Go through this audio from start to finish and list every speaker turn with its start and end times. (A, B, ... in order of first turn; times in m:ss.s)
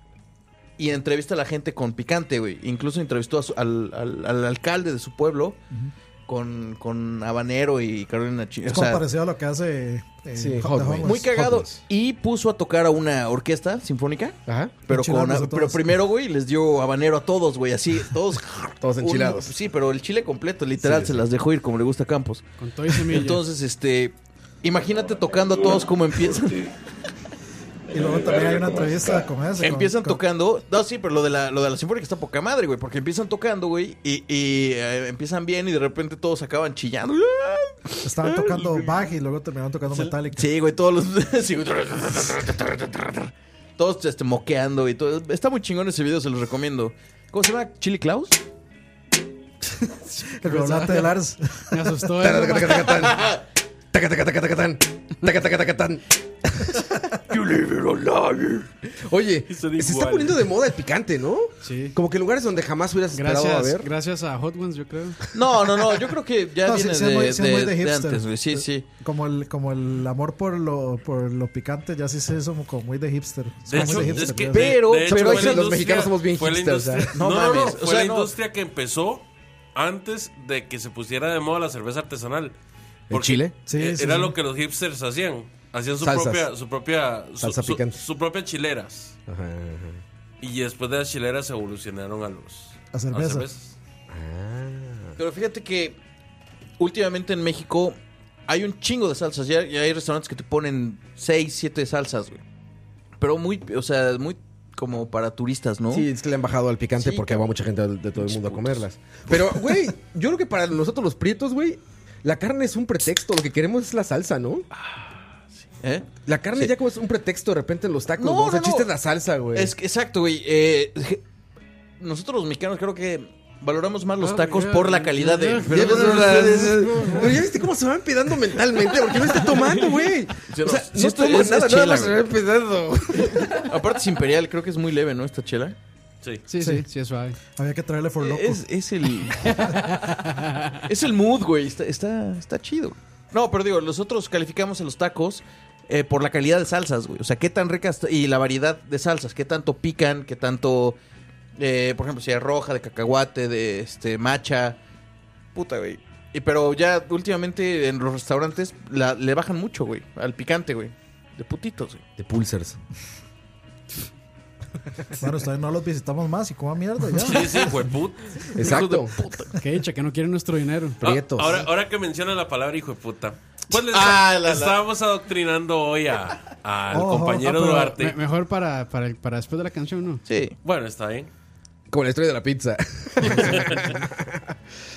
0:00.8-0:05.6 A
0:06.3-0:09.0 A
0:08.7-0:11.3 B
0:10.3-0:11.8 C
0:11.0-0:26.7 A
0:14.5-0:14.8 C
0:14.9-0:15.9 B
0:18.8-0:19.6 C
0:20.8-0:21.3 C
0:22.6-0:23.4 D
0:27.9-0:30.2 B
0:29.6-0:39.1 A
0:38.0-0:40.4 B
0:39.9-0:48.4 A
0:50.2-0:51.1 D
0:50.4-0:52.4 B
0:51.7-0:52.8 D
0:52.2-0:53.3 C
0:52.9-0:53.4 A
0:53.9-0:56.0 C
0:57.3-0:58.7 A
0:59.0-1:03.9 C
0:59.5-1:00.5 E
1:01.6-1:02.0 D
1:03.2-1:05.2 D
1:05.3-1:08.9 A
1:06.6-1:14.9 B
1:13.7-1:22.6 E
1:13.7-1:17.2 C
1:14.5-1:16.0 A
1:17.2-1:18.3 A
1:23.1-1:23.6 C
1:23.1-1:29.2 E
1:23.7-1:24.4 B
1:26.0-1:26.5 C
1:27.4-1:28.0 C
1:29.3-1:30.0 C
1:30.4-1:33.7 E
1:32.9-1:33.5 B
1:34.1-1:35.2 C
1:35.2-1:36.0 A
1:36.8-1:38.0 A
1:38.5-1:42.4 A
1:43.2-1:46.1 A
1:45.9-1:54.7 C
1:47.0-1:47.5 A
1:48.2-1:49.5 A
1:54.7-1:56.7 A
1:56.3-1:59.7 C
1:58.2-1:58.9 A
1:59.5-2:01.2 A
2:02.0-2:07.3 A
2:04.2-2:06.5 D
2:05.7-2:13.5 C
2:10.5-2:12.2 A
2:13.2-2:15.8 A
2:16.5-2:17.4 D
2:17.6-2:18.6 B
2:18.2-2:19.8 A
2:19.5-2:20.8 D
2:20.8-2:31.0 A
2:31.6-2:34.8 A
2:35.6-2:42.0 A
2:42.2-2:42.8 C
2:45.2-2:47.8 B
2:47.2-2:48.5 E
2:48.5-2:49.5 A
2:48.6-2:49.2 C
2:49.6-2:51.0 D
2:51.0-2:51.7 C
2:51.0-2:58.2 E
2:53.7-2:54.8 A
2:56.9-2:57.9 B
2:57.7-3:00.2 D
3:00.3-3:00.6 A
3:00.6-3:01.3 E
3:01.9-3:04.6 C
3:03.4-3:03.6 E